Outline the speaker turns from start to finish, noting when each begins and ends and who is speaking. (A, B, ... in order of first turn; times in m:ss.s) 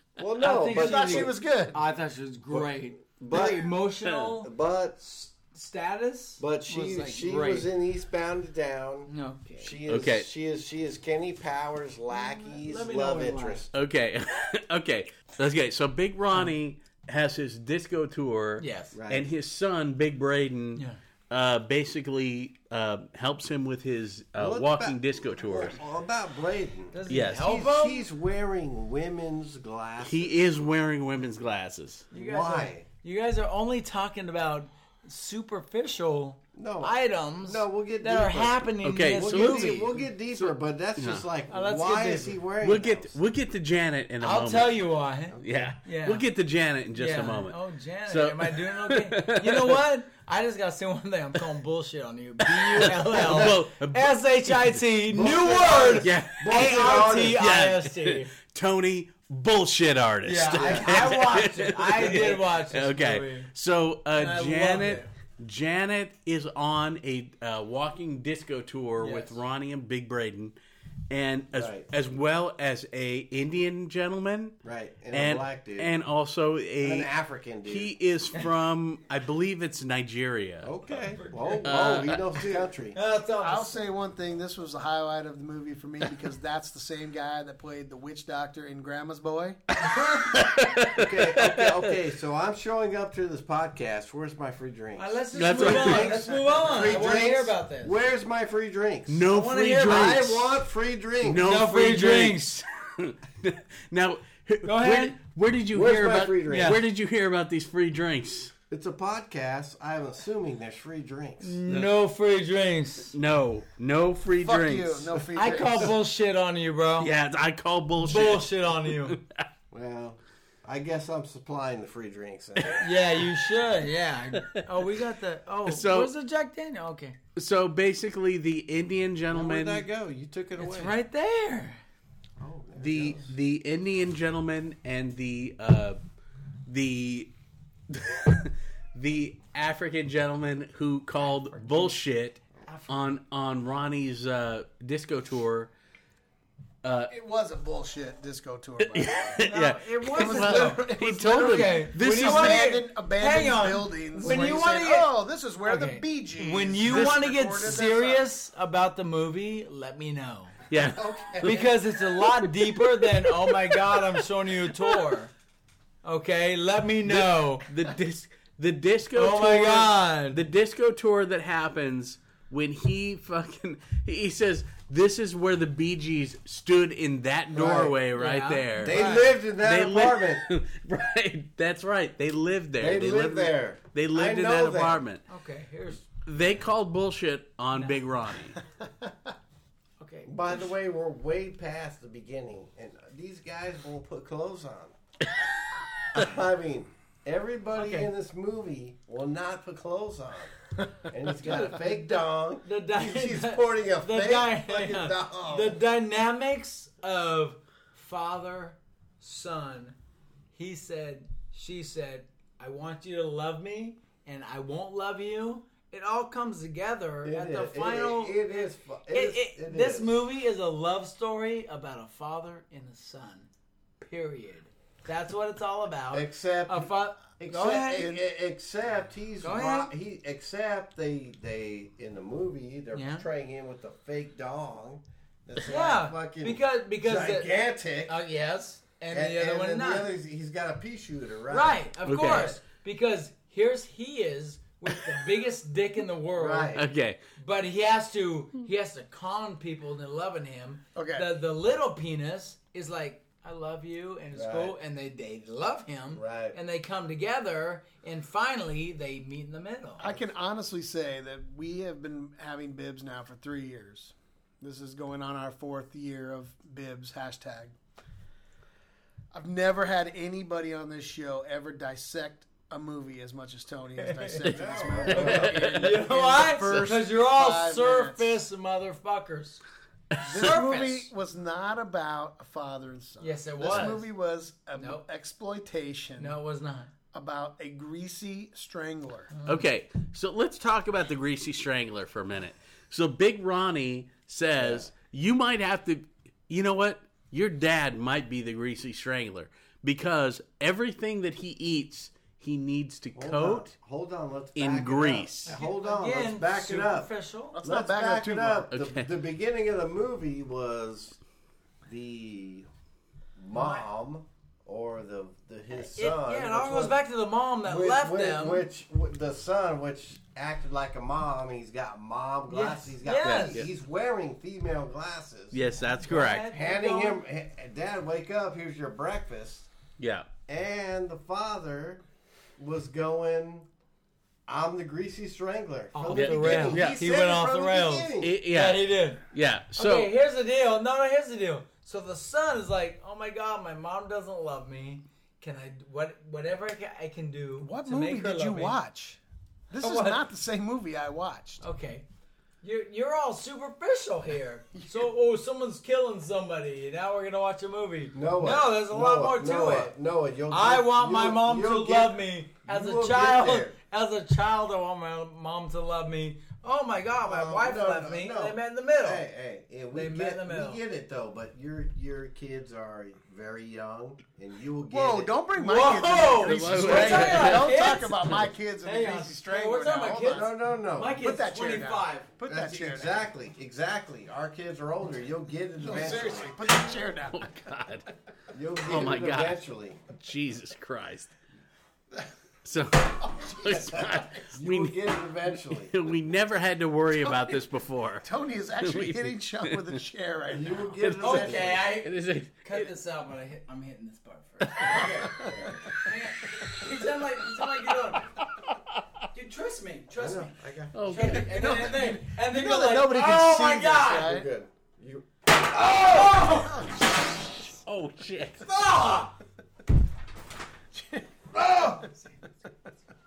0:00.2-0:01.3 A
0:00.4-0:07.7 B
0:00.7-0:01.8 C
0:03.2-0:03.7 A
0:04.4-0:05.0 A
0:06.4-0:13.7 A
0:09.1-0:09.8 B
0:09.9-0:10.3 D
0:12.1-0:13.6 B
0:13.7-0:25.8 D
0:18.6-0:19.0 B
0:18.9-0:19.3 A
0:24.4-0:30.4 A
0:26.9-0:28.1 B
0:27.1-0:27.5 D
0:30.0-0:32.1 D
0:32.1-0:40.0 B
0:32.1-0:32.9 A
0:36.6-0:43.2 A
0:38.8-0:41.3 D
0:41.5-0:42.4 B
0:42.6-0:44.9 D
0:44.2-0:46.3 B
0:45.3-0:45.7 A
0:45.4-0:49.8 D
0:47.0-0:58.3 B
0:52.4-0:54.8 D
0:53.1-0:53.6 A
0:55.1-0:57.4 A
0:56.0-1:10.6 D
1:00.2-1:03.5 B
1:00.5-1:00.9 A
1:04.2-1:05.1 B
1:09.0-1:09.4 B
1:11.1-1:14.6 D
1:11.5-1:11.9 A
1:14.6-1:16.0 A
1:15.1-1:17.1 D
1:16.8-1:18.0 A
1:17.6-1:20.7 D
1:20.6-1:23.0 A
1:21.2-1:21.8 B
1:21.7-1:22.6 D
1:22.9-1:23.8 B
1:23.4-1:29.6 C
1:29.7-1:32.0 D
1:29.9-1:30.2 B
1:30.9-1:41.5 A
1:35.0-1:38.0 B
1:35.4-1:36.4 D
1:39.1-1:40.6 D
1:39.3-1:40.3 B
1:41.2-1:48.5 D
1:41.4-1:42.6 B
1:44.6-1:45.2 B
1:45.7-1:46.8 A
1:46.5-1:46.8 B
1:48.7-1:51.6 A
1:51.4-1:53.1 B
1:51.7-1:51.9 D
1:53.1-1:55.1 D
1:54.4-1:56.0 C
1:55.4-1:57.1 B
1:57.0-1:59.4 D
1:58.0-1:59.2 B
1:59.7-2:02.8 A
2:02.8-2:07.2 B
2:05.7-2:06.1 D
2:07.4-2:09.9 D
2:09.3-2:11.0 A
2:10.6-2:11.8 B
2:12.4-2:13.3 A
2:12.8-2:16.0 D
2:16.7-2:17.3 D
2:17.9-2:25.7 D
2:21.2-2:22.0 B
2:22.6-2:23.0 B
2:26.8-2:27.1 D
2:27.1-2:29.4 C
2:28.8-2:32.7 D
2:29.4-2:40.6 B
2:30.1-2:38.3 C
2:36.8-2:37.4 D
2:40.7-2:41.6 D
2:41.0-2:41.7 A
2:41.4-2:45.3 B
2:46.0-2:47.6 B
2:47.0-3:05.2 D
2:49.1-2:50.4 B
2:57.5-2:58.0 A
2:58.2-2:59.3 B
2:58.8-3:00.4 A
3:02.8-3:05.0 A
3:05.3-3:06.1 B
3:06.2-3:08.6 D
3:07.7-3:08.0 B
3:08.8-3:09.3 C
3:10.0-3:10.7 B
3:10.3-3:15.0 A
3:16.1-3:25.8 A
3:17.8-3:18.1 B
3:21.4-3:30.0 B
3:30.5-3:43.5 B
3:37.2-3:40.2 A
3:44.0-3:48.1 B
3:46.1-3:58.2 A
3:47.5-3:48.2 C
3:49.4-3:49.9 B
3:52.9-3:53.3 B
3:55.7-4:00.1 B
3:59.1-4:01.8 A
4:01.5-4:06.8 B
4:02.1-4:02.6 D
4:06.4-4:06.9 A
4:06.8-4:07.2 D
4:07.4-4:20.1 B
4:11.0-4:11.3 C
4:14.3-4:14.7 A
4:16.2-4:16.6 A
4:20.0-4:27.7 C
4:29.3-4:38.4 C
4:34.0-4:34.5 B
4:34.5-4:35.7 A
4:35.1-4:35.8 D
4:35.1-4:39.6 B
4:40.1-4:40.5 D
4:40.2-4:46.4 C
4:40.3-4:41.1 B
4:43.2-4:44.1 B
4:44.8-4:45.0 B
4:46.2-4:46.9 B
4:47.1-4:49.3 C
4:49.3-4:49.6 B
4:49.4-5:03.7 D
4:54.6-4:54.9 A
5:03.2-5:07.1 A
5:04.6-5:05.5 D
5:05.5-5:07.6 B
5:07.5-5:08.7 C
5:07.6-5:11.2 A
5:08.7-5:09.1 D
5:11.8-5:12.7 A
5:13.4-5:17.0 A
5:13.5-5:13.9 B
5:15.7-5:18.7 B
5:17.6-5:25.6 A
5:22.5-5:23.6 B
5:23.2-5:23.7 D
5:25.5-5:26.5 D
5:26.0-5:27.2 B
5:26.5-5:29.7 A
5:30.0-5:30.3 D
5:30.5-5:32.0 A
5:32.6-5:33.7 A
5:34.5-5:38.3 A
5:35.9-5:39.2 B
5:36.1-5:37.0 D
5:38.2-5:40.1 D
5:39.8-5:48.8 B
5:47.6-5:51.6 C
5:49.8-5:50.2 B
5:51.6-5:52.0 B
5:52.6-5:59.9 B
5:58.1-6:03.7 A
6:00.5-6:09.3 B
6:07.2-6:15.3 A
6:09.9-6:10.8 B
6:14.9-6:23.3 C
6:15.6-6:18.2 B
6:16.4-6:18.4 D
6:18.8-6:22.3 B
6:20.2-6:21.2 A
6:22.4-6:26.5 A
6:25.8-6:27.5 C
6:27.3-6:28.1 D
6:28.5-6:30.0 A
6:28.8-6:29.6 D
6:30.1-6:31.3 D
6:32.6-6:38.3 D
6:33.2-6:34.3 C
6:34.5-6:35.9 A
6:37.3-6:37.5 C
6:38.2-6:41.0 C
6:38.8-6:39.9 D
6:40.5-6:41.9 A
6:41.0-6:42.9 D
6:41.2-6:48.3 B
6:45.2-6:45.5 C
6:45.3-6:45.8 A
6:49.3-6:54.3 B
6:50.2-6:51.0 A
6:50.9-6:51.5 D
6:51.2-6:54.5 C
6:54.2-6:55.3 A
6:55.6-6:56.8 B
6:57.6-6:58.7 D
6:58.6-6:59.4 B
7:00.9-7:01.3 C
7:01.6-7:02.4 B